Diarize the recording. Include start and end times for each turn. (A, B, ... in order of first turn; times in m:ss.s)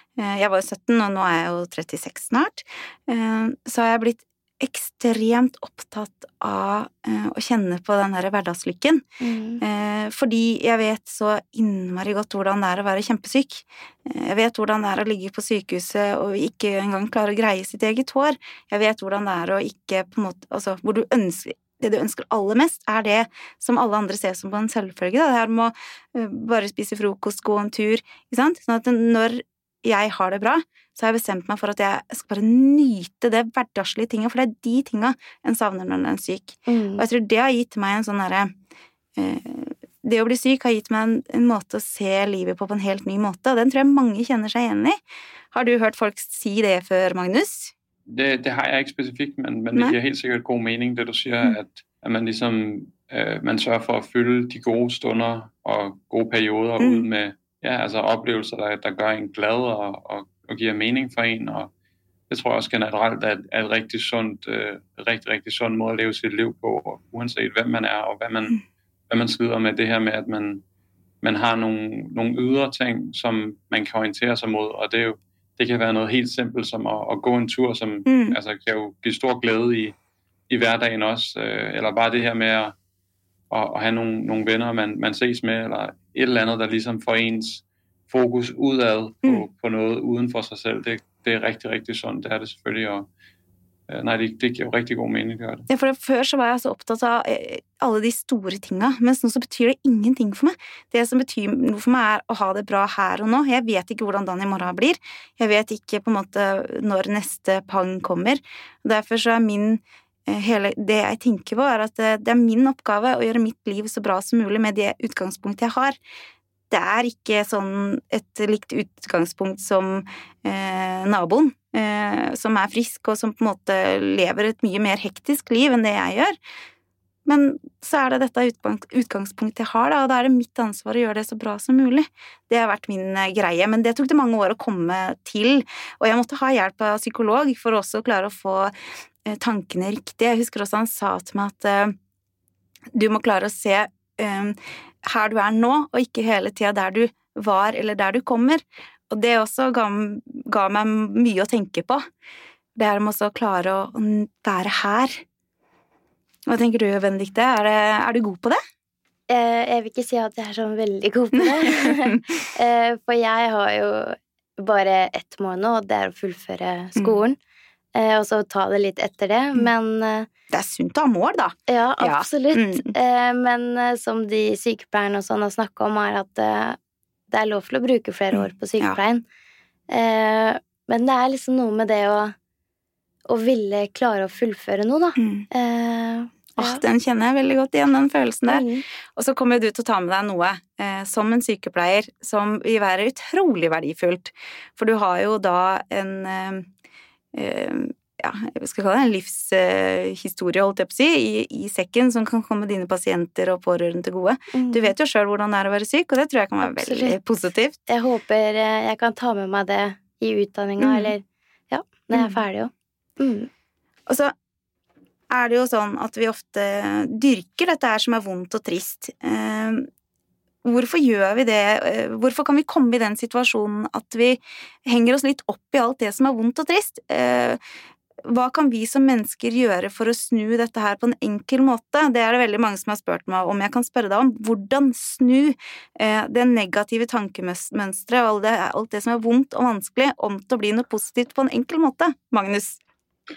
0:00.2-0:09.0 A
0:09.2-0:09.6 B
0:09.6-0:38.5 A
0:36.7-0:37.0 B
0:39.2-0:45.0 A
0:45.5-0:47.7 A
0:48.1-1:01.7 C
0:56.8-0:57.0 A
1:02.3-1:08.6 C
1:09.1-1:10.6 C
1:11.2-1:20.0 C
1:18.1-1:18.4 A
1:20.5-1:22.7 C
1:23.5-1:33.1 C
1:33.9-1:35.7 C
1:35.7-1:56.0 A
1:56.7-2:06.3 A
2:07.2-2:18.7 A
2:19.2-2:21.9 A
2:22.9-2:32.0 A
2:32.8-2:35.2 A
2:36.5-2:38.6 A
2:39.3-2:47.4 B
2:41.5-2:42.2 A
2:47.9-2:50.3 B
2:50.5-2:52.9 A
2:51.7-2:56.8 B
2:57.3-2:59.2 B
2:58.3-2:59.0 A
2:59.9-3:02.3 B
3:03.3-3:06.8 B
3:05.2-3:05.4 A
3:06.6-3:16.7 A
3:08.5-3:08.8 B
3:17.3-3:27.8 A
3:24.5-3:24.9 B
3:26.6-3:27.2 B
3:27.9-3:33.5 B
3:30.8-3:31.1 A
3:34.1-3:34.3 A
3:35.3-3:39.9 A
3:40.6-3:47.6 A
3:48.2-4:02.8 A